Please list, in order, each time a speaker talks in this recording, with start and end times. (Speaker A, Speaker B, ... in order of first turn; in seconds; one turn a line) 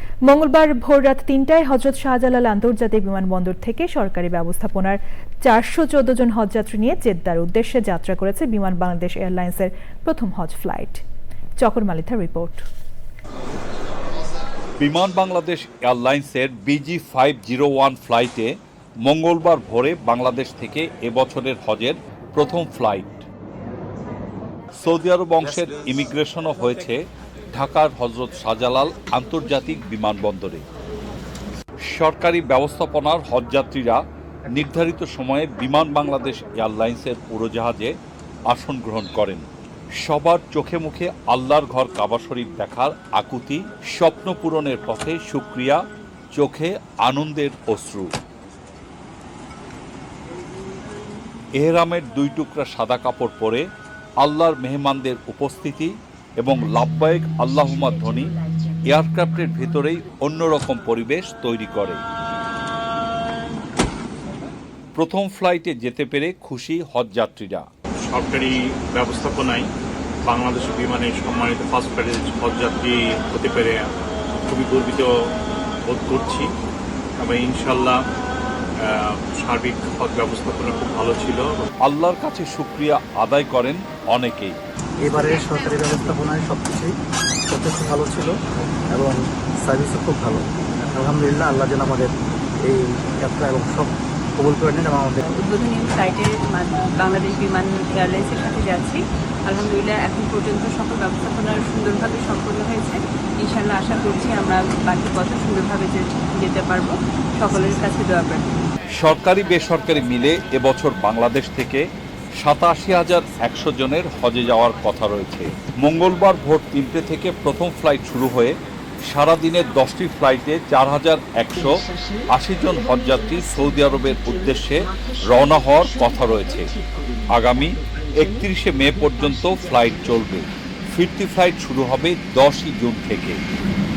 Speaker A: 0.3-11.0
Speaker A: 11.6-12.6
Speaker B: 14.8-18.5
Speaker B: 19.0-23.3
Speaker B: 24.8-27.0
Speaker B: 27.5-30.6
Speaker B: 31.9-37.9
Speaker B: 38.5-39.4
Speaker B: 40.0-45.8
Speaker B: 46.3-48.1
Speaker B: 51.6-53.6
Speaker B: 54.2-58.3
Speaker B: 58.9-62.0
Speaker B: 64.9-67.7
Speaker C: 68.1-69.7
Speaker C: 70.2-73.8
Speaker C: 74.5-75.1
Speaker C: 75.9-76.5
Speaker C: 77.2-78.0
Speaker C: 78.8-81.7
Speaker B: 81.8-84.5
Speaker D: 85.0-86.9
Speaker D: 87.5-88.3
Speaker D: 88.9-92.1
Speaker D: 92.6-95.2
Speaker E: 95.2-108.6
Speaker B: 108.9-111.8
Speaker B: 112.4-126.7
Speaker B: 127.3-133.4